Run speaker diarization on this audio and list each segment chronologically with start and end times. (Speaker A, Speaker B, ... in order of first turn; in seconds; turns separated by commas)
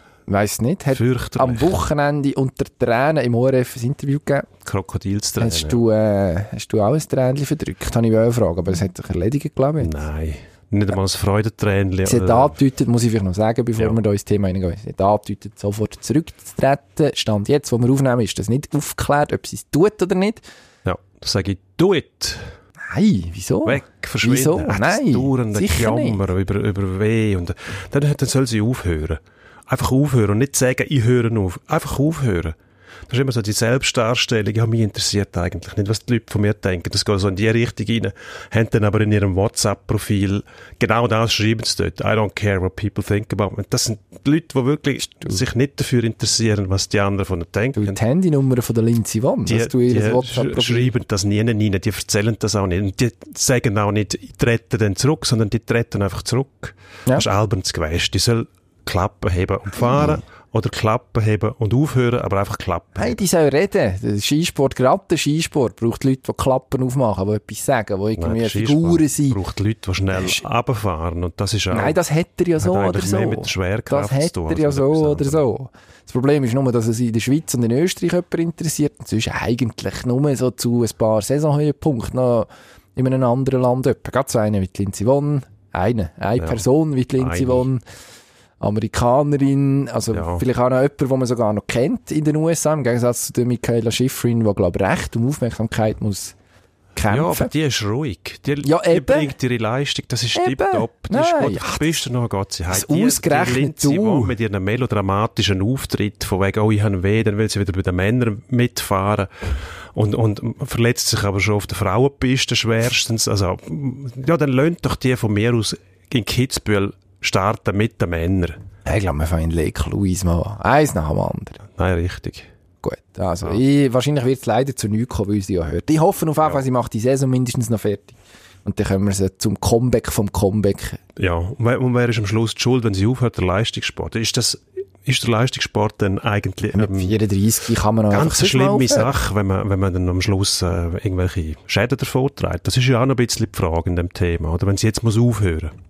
Speaker A: 0.3-4.5, Speaker B: 0.9-1.8, Speaker B: 4.6-5.8, Speaker A: 5.4-9.9, Speaker B: 9.8-12.6, Speaker A: 12.0-20.4, Speaker B: 20.8-22.5, Speaker A: 22.9-26.2, Speaker B: 23.6-32.6, Speaker B: 33.1-48.0, Speaker A: 47.8-50.9, Speaker B: 49.5-63.2, Speaker A: 59.8-60.2, Speaker A: 63.0-69.4, Speaker B: 68.2-72.0, Speaker A: 70.1-70.4, Speaker A: 71.7-87.8, Speaker B: 72.6-75.4, Speaker B: 86.4-86.6, Speaker B: 87.2-87.7, Speaker A: 88.6-96.3, Speaker B: 90.1-90.4, Speaker A: 97.0-97.5, Speaker B: 97.1-118.6, Speaker A: 98.6-99.3, Speaker A: 100.3-102.0, Speaker A: 102.7-104.3, Speaker A: 118.8-121.6, Speaker B: 121.7-122.5, Speaker A: 122.8-131.0, Speaker B: 131.2-137.2, Speaker A: 136.7-139.1, Speaker B: 138.1-145.7